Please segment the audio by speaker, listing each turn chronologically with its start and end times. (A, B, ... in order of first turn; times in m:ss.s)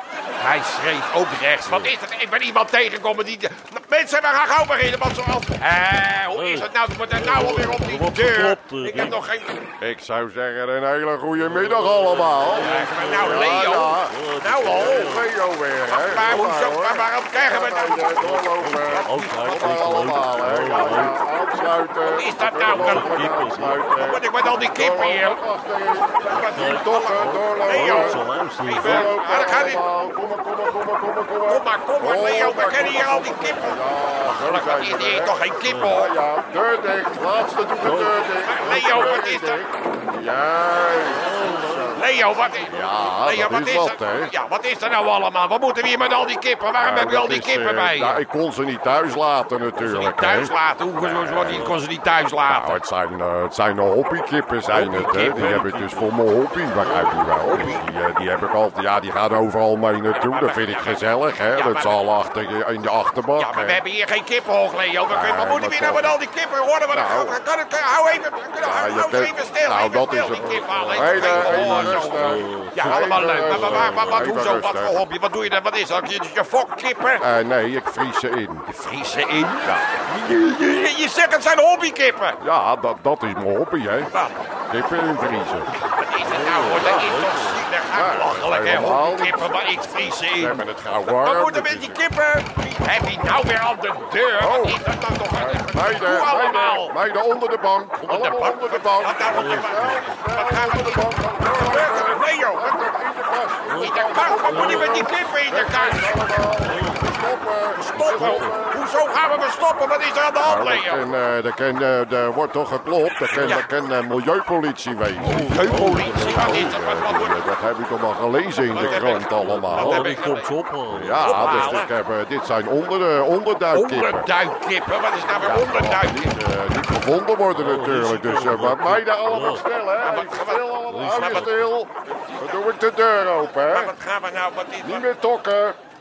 0:00.4-0:09.5 A
0:01.6-0:01.9 B
0:06.3-0:09.2 B
0:09.8-0:28.2 C
0:11.4-0:15.3 B
0:12.6-0:15.2 A
0:15.9-0:19.6 A
0:18.4-0:21.2 B
0:22.0-0:23.2 A
0:22.7-0:23.8 B
0:23.9-0:25.4 A
0:26.3-0:29.8 A
0:26.3-0:29.1 B
0:28.7-0:42.1 C
0:31.4-0:36.1 A
0:35.6-0:36.0 B
0:37.8-0:38.2 B
0:38.4-0:39.6 A
0:41.0-0:42.1 B
0:41.9-0:48.2 A
0:42.7-0:44.3 C
0:46.8-0:51.7 C
0:49.8-0:52.8 A
0:51.5-0:51.8 B
0:52.4-1:03.8 C
0:54.7-0:56.1 B
0:54.7-0:55.6 A
0:56.8-0:57.8 B
0:57.4-0:57.8 A
1:00.1-1:01.0 A
1:01.5-1:01.9 A
1:03.4-1:17.2 A
1:05.1-1:06.2 C
1:06.9-1:07.4 C
1:08.6-1:15.0 C
1:10.5-1:14.4 B
1:17.2-1:18.6 C
1:18.7-1:22.4 A
1:22.4-1:24.1 C
1:24.1-1:24.4 A
1:24.7-1:25.7 C
1:25.8-1:36.9 A
1:26.2-1:27.7 B
1:26.8-1:27.1 C
1:27.9-1:29.5 C
1:30.3-1:32.0 C
1:34.4-1:34.8 C
1:35.3-1:48.8 C
1:38.0-1:42.7 A
1:39.2-1:40.1 B
1:43.7-1:45.1 B
1:43.8-1:46.1 A
1:46.6-1:47.1 B
1:47.8-1:51.0 A
1:47.9-1:48.5 B
1:50.4-2:00.2 C
1:53.3-1:53.6 B
1:55.2-1:56.8 B
1:55.2-1:57.4 A
1:58.7-2:00.5 A
1:58.7-2:01.8 B
2:00.9-2:04.3 C
2:01.2-2:01.9 A
2:03.7-2:06.3 A
2:05.3-2:13.9 C
2:07.5-2:09.6 B
2:10.0-2:11.5 A
2:10.8-2:11.7 B
2:13.7-2:15.0 A
2:14.8-2:15.8 C